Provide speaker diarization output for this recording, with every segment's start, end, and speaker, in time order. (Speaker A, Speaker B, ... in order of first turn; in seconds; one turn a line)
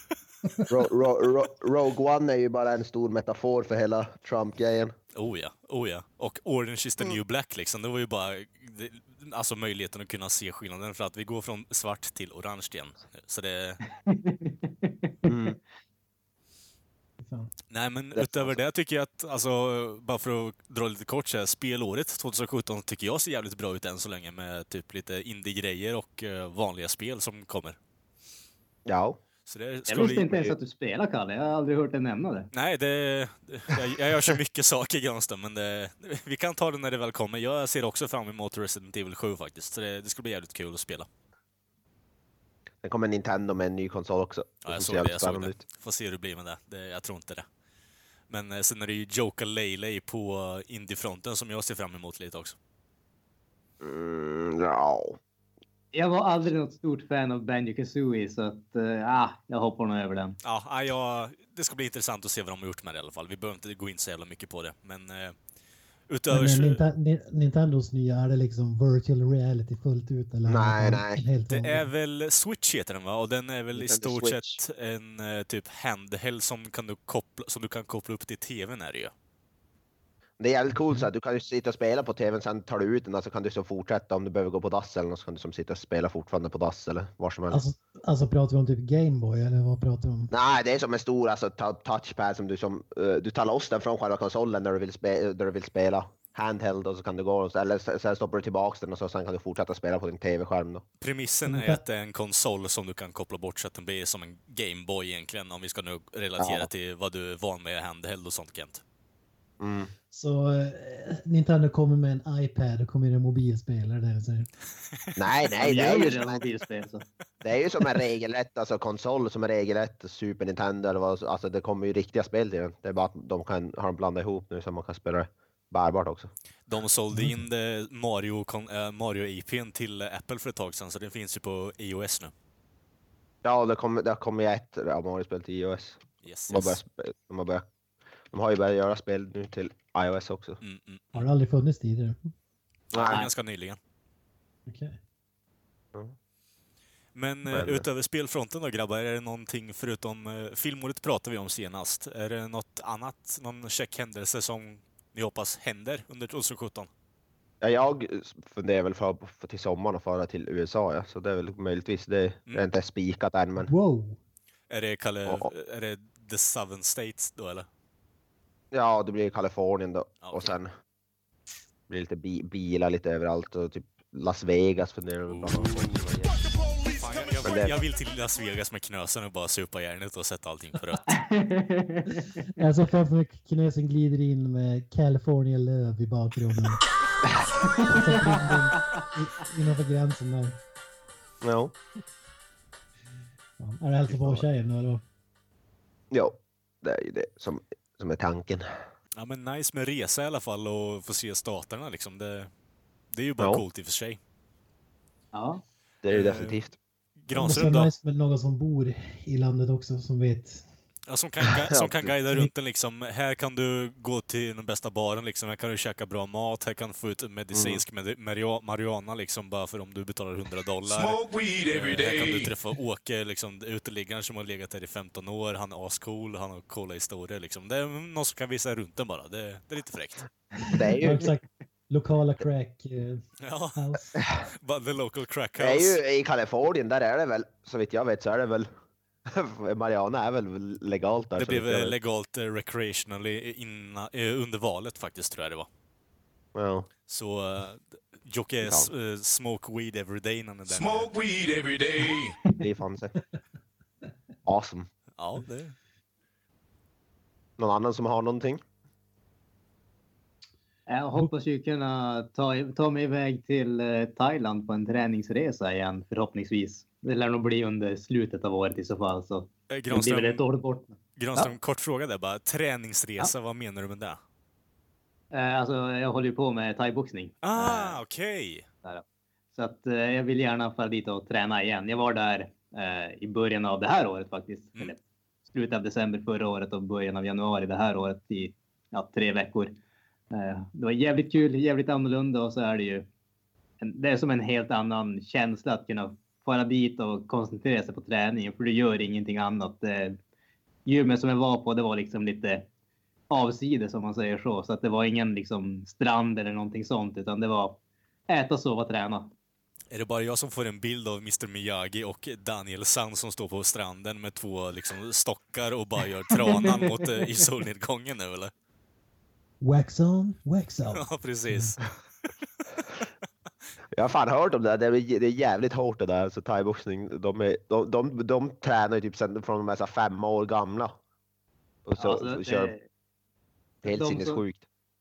Speaker A: 0.7-4.9
Speaker B: 5.1-13.8
Speaker C: 14.1-15.1
Speaker A: 15.2-15.6
Speaker D: 17.2-17.5
Speaker B: 17.7-27.8
Speaker A: 18.1-18.6
Speaker A: 28.9-29.2
Speaker B: 29.4-30.5
Speaker C: 29.9-32.5
Speaker B: 32.5-41.1
Speaker A: 42.8-45.6
Speaker B: 44.6-47.5
Speaker B: 48.3-52.5
Speaker A: 53.8-55.2
Speaker C: 55.9-60.4
Speaker B: 60.4-65.3
Speaker B: 66.1-66.8
Speaker D: 66.3-71.9
Speaker A: 70.5-71.2
Speaker B: 71.5-79.1
Speaker A: 73.7-74.6
Speaker A: 80.4-87.6
Speaker D: 87.5-90.3
Speaker A: 90.3-100.8
Speaker B: 101.0-108.8
Speaker D: 101.5-101.8
Speaker A: 106.4-106.7
Speaker A: 109.6-109.9
Speaker D: 110.1-114.5
Speaker B: 115.1-116.3
Speaker A: 115.2-116.4
Speaker C: 115.6-117.0
Speaker A: 117.4-126.3
Speaker B: 126.7-132.3
Speaker D: 127.1-127.4
Speaker A: 133.4-137.6
Speaker B: 136.2-136.8
Speaker A: 138.3-140.6
Speaker B: 140.6-141.2
Speaker D: 141.1-142.2
Speaker A: 142.9-143.2
Speaker B: 142.9-143.8
Speaker D: 144.7-145.0
Speaker B: 147.1-156.9
Speaker A: 147.5-147.8
Speaker A: 157.6-163.7
Speaker D: 163.6-164.2
Speaker B: 164.7-167.7
Speaker A: 168.7-170.7
Speaker B: 170.2-170.5
Speaker A: 171.9-176.3
Speaker B: 175.3-176.2
Speaker B: 176.8-181.2
Speaker A: 177.4-177.8
Speaker C: 181.1-182.3
Speaker D: 182.6-186.8
Speaker C: 187.6-188.5
Speaker D: 187.8-190.6
Speaker A: 191.4-191.7
Speaker D: 193.6-195.0
Speaker A: 194.1-194.4
Speaker A: 196.1-198.7
Speaker B: 199.2-202.5
Speaker B: 203.1-204.2
Speaker C: 205.3-205.6
Speaker A: 206.0-206.7
Speaker B: 206.1-206.6
Speaker B: 207.2-207.9
Speaker D: 207.3-210.6
Speaker B: 211.1-230.3
Speaker A: 211.5-212.1
Speaker A: 217.5-217.8
Speaker E: 220.9-222.5
Speaker D: 230.6-234.2
Speaker A: 230.7-231.3
Speaker B: 233.4-233.8
Speaker B: 234.4-236.0
Speaker A: 235.6-238.7
Speaker A: 239.2-241.9
Speaker B: 241.3-245.7
Speaker A: 246.5-246.9
Speaker B: 247.1-251.3
Speaker A: 248.6-248.9
Speaker E: 250.7-252.3
Speaker A: 252.6-253.1
Speaker A: 254.4-254.9
Speaker B: 255.2-255.7
Speaker A: 257.6-258.6
Speaker C: 260.9-271.5
Speaker B: 269.7-270.4
Speaker B: 271.2-274.2
Speaker C: 275.3-278.0
Speaker B: 277.4-278.6
Speaker C: 278.8-285.0
Speaker C: 285.5-289.7
Speaker C: 290.3-293.1
Speaker C: 293.8-300.2
Speaker C: 300.9-302.7
Speaker C: 303.3-309.3
Speaker B: 309.9-318.5
Speaker C: 316.3-317.4
Speaker D: 319.6-321.8
Speaker B: 320.9-321.9
Speaker A: 323.9-331.0
Speaker A: 331.8-332.7
Speaker C: 332.0-332.8
Speaker A: 333.8-334.6
Speaker C: 333.9-334.4